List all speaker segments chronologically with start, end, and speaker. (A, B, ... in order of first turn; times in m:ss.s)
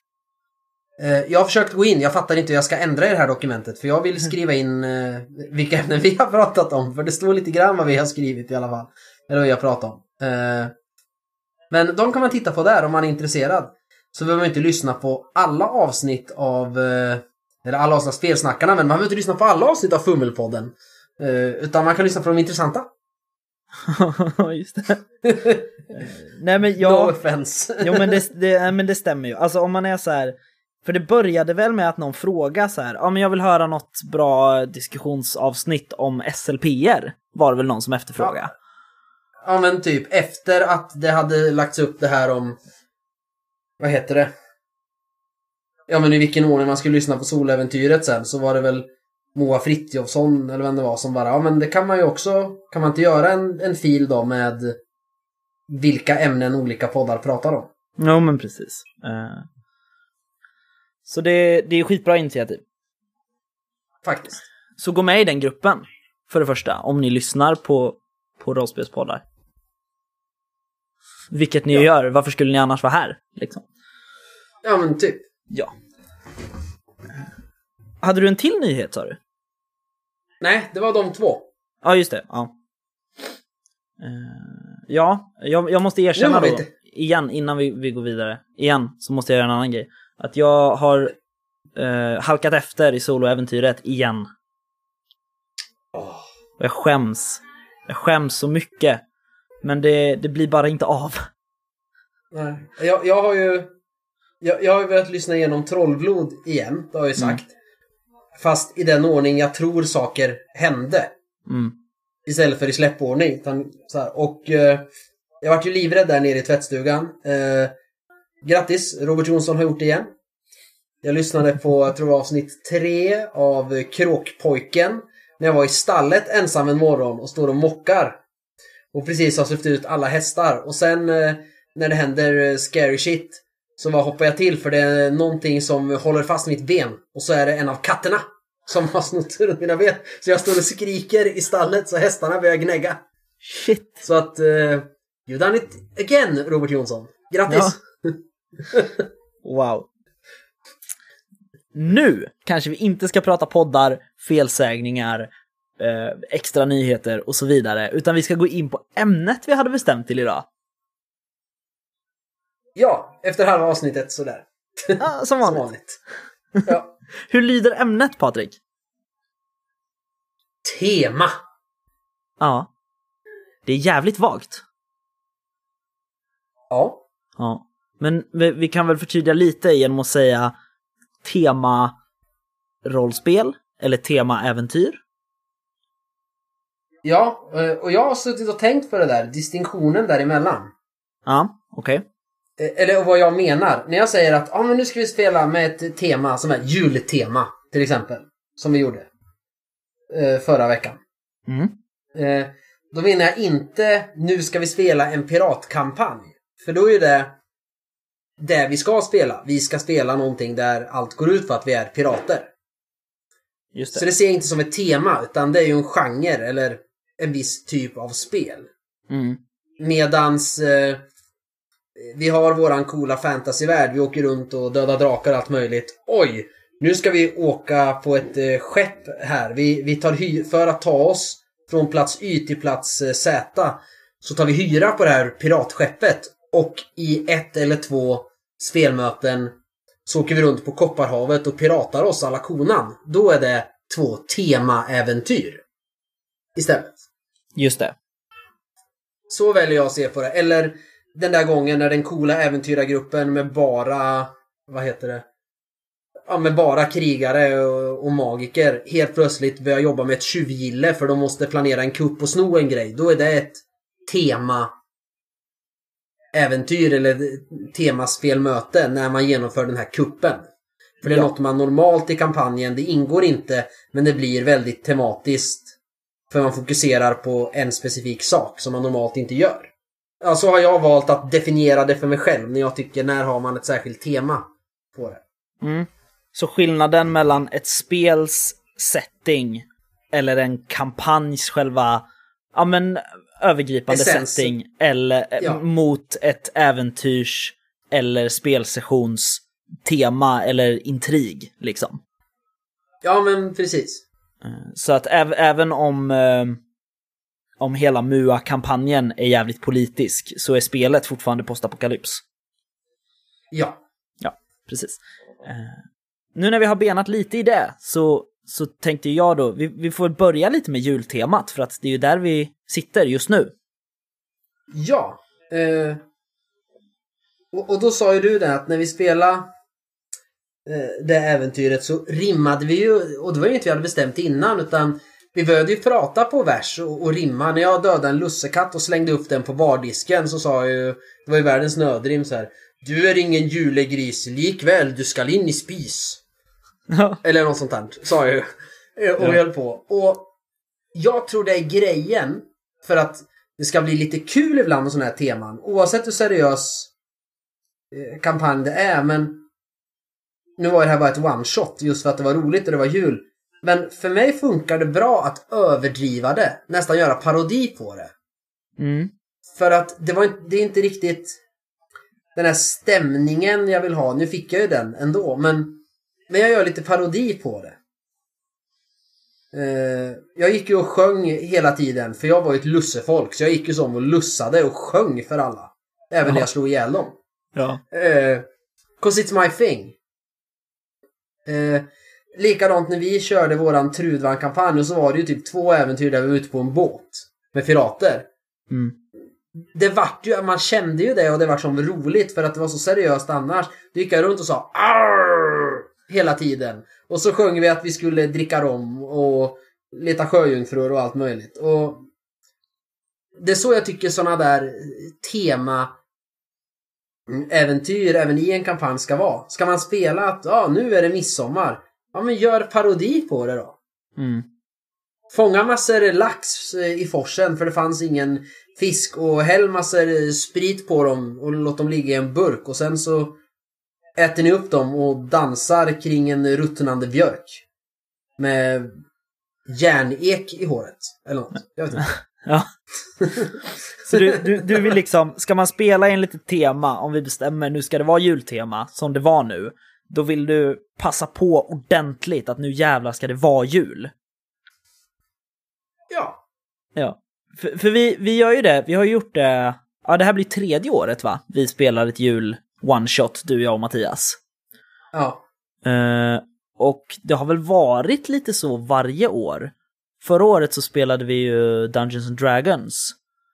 0:01.0-0:10.7 A
0:11.7-0:22.9 A
0:23.9-0:25.0 B
0:25.2-0:25.7 A
0:25.9-0:27.1 B
0:26.8-0:28.1 A
0:27.8-0:38.5 B
0:39.4-0:42.6 A
0:43.8-0:44.3 A
0:45.9-0:54.8 A
0:55.7-0:57.7 A
0:58.0-0:59.4 B
1:01.0-1:02.6 B
1:04.0-1:04.4 A
1:04.8-1:09.2 B
1:11.3-1:13.6 B
1:14.6-1:15.2 A
1:18.0-1:19.2 B
1:20.4-1:21.5 A
1:21.8-1:22.5 B
1:24.0-1:31.1 B
1:26.2-1:26.7 A
1:31.8-1:34.3 B
1:35.9-1:36.2 A
1:36.6-1:39.0 B
1:39.6-1:41.2 B
1:42.3-1:43.7 A
1:44.4-1:47.5 A
1:48.4-1:51.1 A
1:51.5-1:51.7 B
1:52.2-1:54.9 A
1:55.4-1:57.7 A
1:58.4-2:00.1 A
2:01.0-2:08.2 A
2:08.9-2:23.0 A
2:23.4-2:24.0 B
2:24.0-2:29.0 A
2:27.5-2:27.7 B
2:29.4-2:29.9 B
2:31.7-2:40.5 B
2:42.8-2:46.0 A
2:45.0-2:45.7 B
2:47.3-2:48.6 B
2:50.6-2:51.3 A
2:52.4-2:52.7 B
2:53.6-2:54.6 B
2:56.7-2:57.0 A
2:57.4-3:00.5 B
3:01.2-3:01.9 B
3:02.8-3:05.0 B
3:07.0-3:10.7 A
3:11.3-3:12.0 B
3:12.6-3:19.1 A
3:20.1-3:21.0 A
3:21.5-3:21.7 B
3:22.1-3:27.4 A
3:28.4-3:32.5 A
3:33.7-3:34.0 B
3:33.9-3:38.7 A
3:39.1-3:39.4 B
3:39.8-3:41.0 A
3:42.0-3:59.5 A
4:00.0-4:05.6 A
4:06.6-4:07.0 A
4:07.6-4:07.9 B
4:09.3-4:15.2 A
4:16.3-4:24.7 A
4:26.3-4:30.4 A
4:31.0-4:35.7 A
4:31.0-4:31.3 B
4:36.3-4:39.7 A
4:40.2-4:45.2 A
4:45.6-4:52.0 B
4:52.5-5:02.0 B
4:53.9-4:54.5 A
5:03.0-5:04.0 A
5:04.4-5:06.6 B
5:07.6-5:12.2 B
5:13.5-5:13.8 A
5:14.2-5:15.8 B
5:16.3-5:23.5 B
5:24.7-5:26.0 A
5:27.5-5:29.5 A
5:30.6-5:46.2 A
5:46.9-5:47.2 B
5:47.2-5:48.4 A
5:49.0-5:50.3 A
5:50.9-5:56.9 A
5:57.9-5:59.4 A
6:00.6-6:08.1 A
6:08.8-6:09.1 B
6:09.6-6:11.4 A
6:12.3-6:17.8 A
6:19.5-6:27.2 A
6:27.5-6:27.8 B
6:27.9-6:28.4 A
6:29.0-6:30.0 A
6:31.5-6:38.3 A
6:39.7-6:52.0 A
6:53.4-6:55.9 A
6:57.3-7:03.8 A
7:04.2-7:04.4 B
7:05.3-7:13.4 A
7:14.2-7:17.6 A
7:18.4-7:18.9 A
7:19.7-7:22.1 A
7:22.4-7:22.7 B
7:24.0-7:34.1 B
7:24.1-7:24.9 A
7:36.1-7:36.4 A
7:37.0-7:44.4 B
7:45.1-7:45.4 A
7:45.8-7:53.2 B